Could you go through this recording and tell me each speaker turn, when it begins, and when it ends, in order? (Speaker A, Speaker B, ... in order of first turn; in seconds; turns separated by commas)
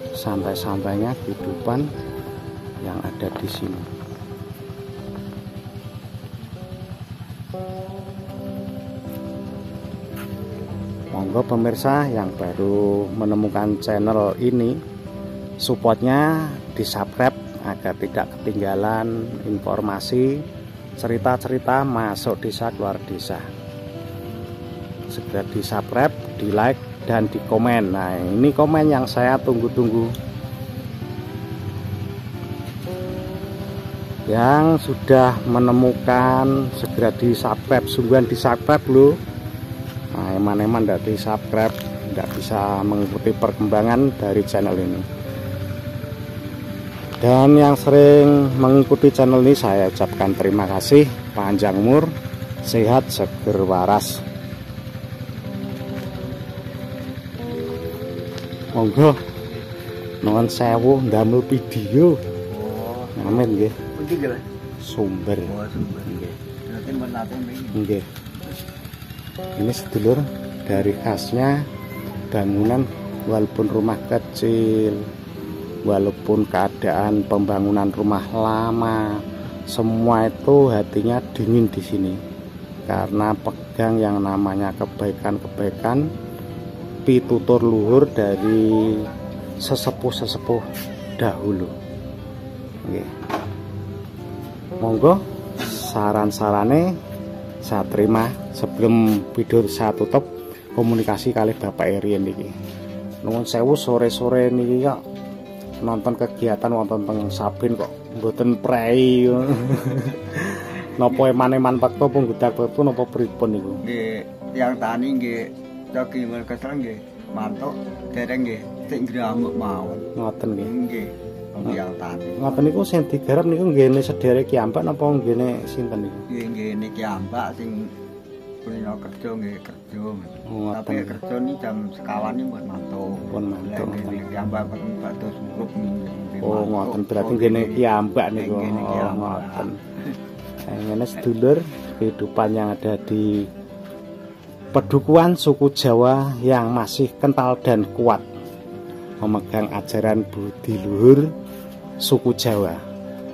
Speaker A: 0.1-1.9, Speaker A: 2.8-3.9, Speaker A: 11.1-14.8, Speaker A: 15.6-20.4, Speaker A: 21.0-23.4, Speaker A: 25.1-30.1, Speaker A: 34.3-39.1, Speaker A: 40.1-45.0, Speaker A: 47.2-52.1, Speaker A: 52.6-54.2, Speaker A: 58.7-59.2, Speaker A: 60.2-62.2, Speaker B: 62.5-64.4, Speaker A: 63.2-63.8, Speaker A: 64.8-65.5, Speaker B: 65.5-67.8, Speaker A: 67.7-68.1, Speaker A: 69.6-71.5, Speaker A: 72.3-75.1, Speaker A: 75.8-82.2, Speaker A: 82.9-86.0, Speaker A: 87.0-90.6, Speaker A: 91.2-91.7, Speaker A: 92.8-93.1, Speaker A: 94.8-96.9, Speaker A: 97.6-102.5, Speaker A: 103.2-105.0, Speaker A: 105.8-113.8, Speaker B: 113.8-120.0, Speaker A: 120.2-120.7, Speaker B: 120.6-122.5, Speaker A: 122.4-126.2, Speaker B: 126.3-127.9, Speaker B: 128.6-139.7, Speaker A: 130.5-131.2, Speaker A: 133.3-134.2, Speaker A: 136.4-139.7, Speaker A: 140.7-143.5, Speaker A: 144.7-148.2, Speaker A: 149.2-151.3, Speaker A: 152.0-152.8